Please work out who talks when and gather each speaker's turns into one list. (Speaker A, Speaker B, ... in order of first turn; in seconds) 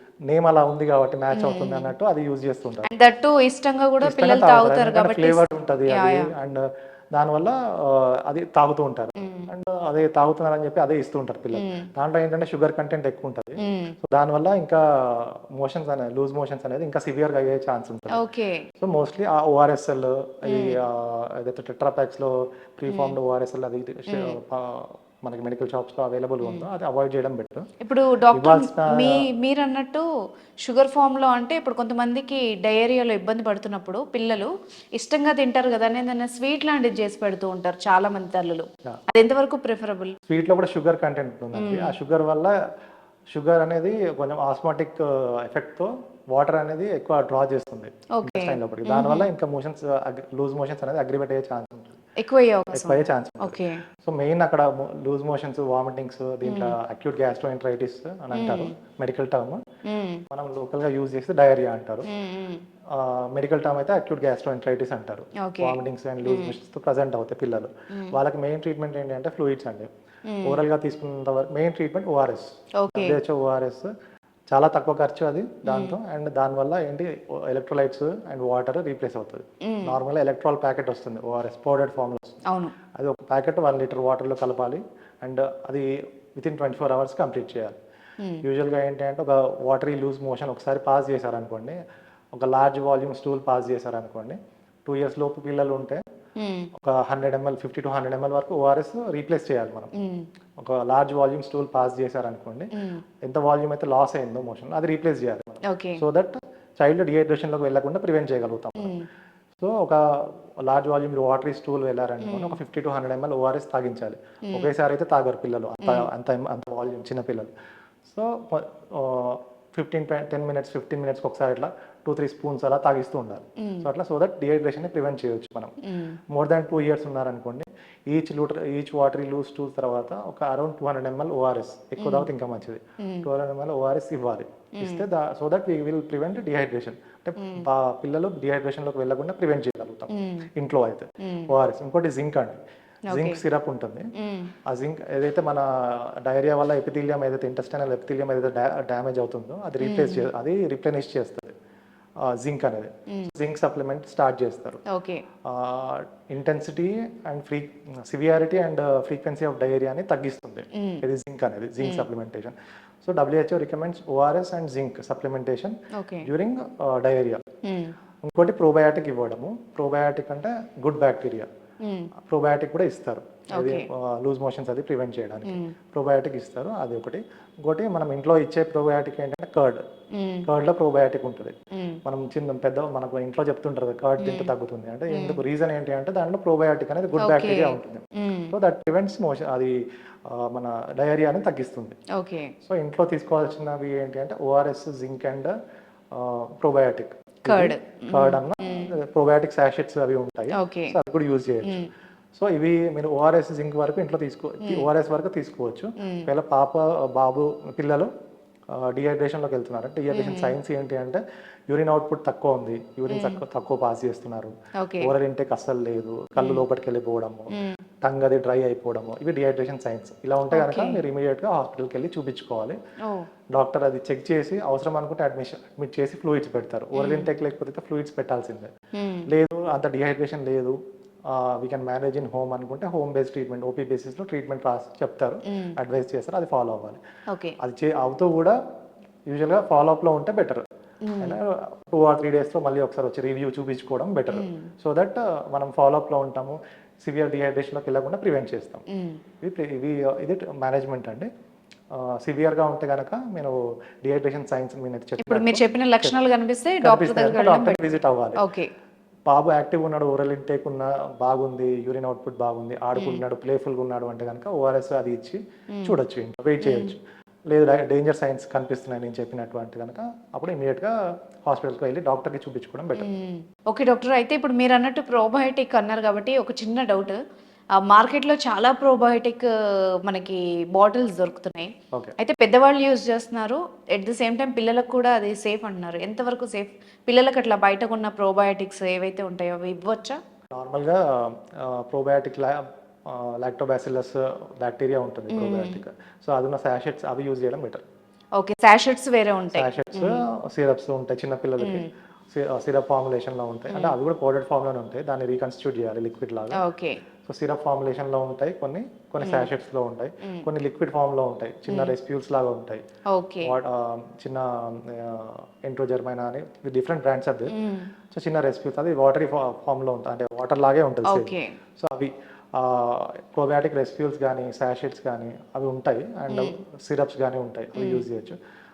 Speaker A: 0.3-2.9, 4.0-18.2, 18.8-27.7, 28.3-29.3, 40.3-42.5, 43.3-52.0, 52.7-59.6, 60.3-62.1, 62.9-69.9, 70.5-73.9, 74.5-82.4, 83.0-87.8, 88.4-91.8, 92.3-96.0, 96.8-99.9, 100.6-102.7, 103.2-109.0, 109.6-117.5, 118.1-125.7, 126.3-144.1, 144.7-151.5, 152.2-154.8, 155.5-167.4, 168.2-171.5, 172.3-179.8, 180.5-192.0, 192.6-195.5, 196.1-208.1, 208.7-217.5, 218.0-222.8, 223.5-228.7, 229.3-230.8, 231.3-237.0, 237.6-238.5, 239.3-240.6, 241.2-248.8, 249.4-251.3, 251.9-256.2, 256.8-258.4, 259.3-273.1, 290.5-297.8, 299.5-306.6, 307.3-312.8, 313.4-317.5, 318.1-328.4
Speaker B: 1.3-1.9, 2.8-6.3, 9.2-9.5, 11.5-11.8, 13.6-13.9, 18.1-18.6, 20.5-20.8, 22.9-23.2, 24.1-24.4, 27.8-30.1, 30.6-40.1, 41.5-42.0, 48.2-49.3, 52.2-53.8, 56.5-56.8, 58.3-58.7, 59.9-60.2, 62.1-62.6, 65.5-66.5, 70.3-70.6, 72.8-73.2, 75.7-76.0, 79.7-80.0, 82.5-82.7, 96.4-96.7, 100.0-100.3, 102.7-103.0, 105.7-106.0, 108.8-109.1, 112.2-112.6, 115.8-116.1, 125.8-126.2, 132.0-132.3, 133.0-133.3, 134.8-135.1, 137.4-137.7, 140.1-140.5, 141.2-141.5, 143.1-143.4, 144.2-144.5, 149.8-150.3, 154.9-155.2, 160.8-161.0, 161.8-162.1, 165.9-166.3, 167.6-167.9, 171.8-172.1, 173.6-173.9, 175.5-175.7, 180.2-180.5, 184.2-184.5, 185.1-185.4, 187.2-188.5, 192.2-192.5, 197.5-198.9, 200.6-200.9, 201.6-201.9, 206.0-206.3, 210.1-210.6, 213.1-213.4, 214.8-215.1, 216.4-216.6, 220.5-221.0, 226.9-227.3, 229.0-229.2, 241.1-241.4, 244.3-244.7, 255.2-257.8, 258.4-258.7, 263.0-263.2, 266.6-266.9, 273.0-277.2, 277.8-279.5, 280.1-290.2, 295.3-295.8, 298.4-300.2, 301.6-301.9, 306.6-307.0, 309.2-309.5, 313.1-313.5, 317.5-317.9, 321.1-321.5, 326.3-326.6, 327.8-328.1